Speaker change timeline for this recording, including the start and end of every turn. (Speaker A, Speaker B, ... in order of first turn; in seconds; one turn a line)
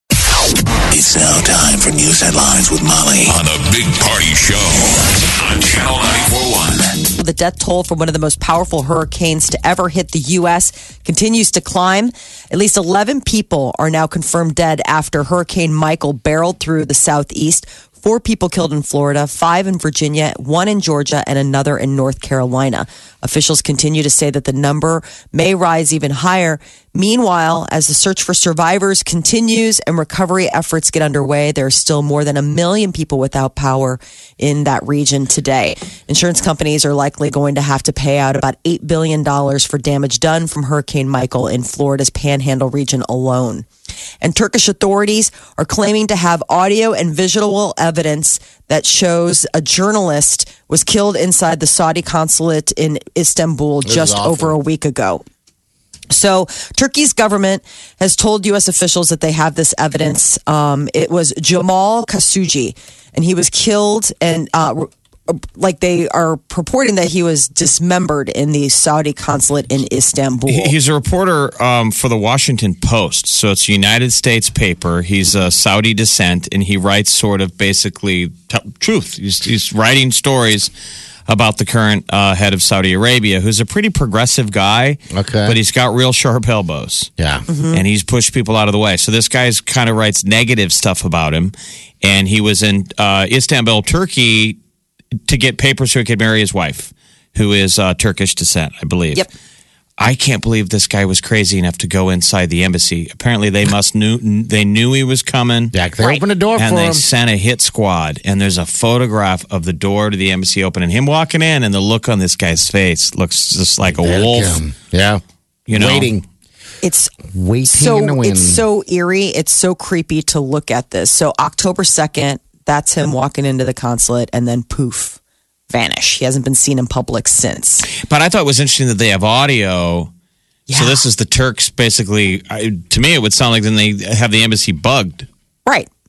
Speaker A: 0.9-7.1
Speaker B: 7.2-43.6
Speaker B: 44.2-55.2
Speaker C: 53.8-54.5
Speaker B: 56.1-70.7
Speaker D: 70.5-80.7
Speaker D: 81.3-87.1
Speaker C: 85.1-85.6
Speaker C: 87.2-87.5
Speaker B: 87.5-87.8
Speaker D: 87.7-94.6
Speaker D: 95.3-99.2
Speaker D: 100.0-105.8
Speaker C: 105.7-107.0
Speaker D: 106.6-114.6
Speaker C: 114.0-116.2
Speaker D: 115.7-116.1
Speaker B: 116.8-117.1
Speaker C: 117.3-118.6
Speaker B: 117.7-125.2
Speaker B: 125.7-127.9
Speaker D: 127.9-130.1
Speaker B: 130.7-131.0
Speaker D: 130.7-135.3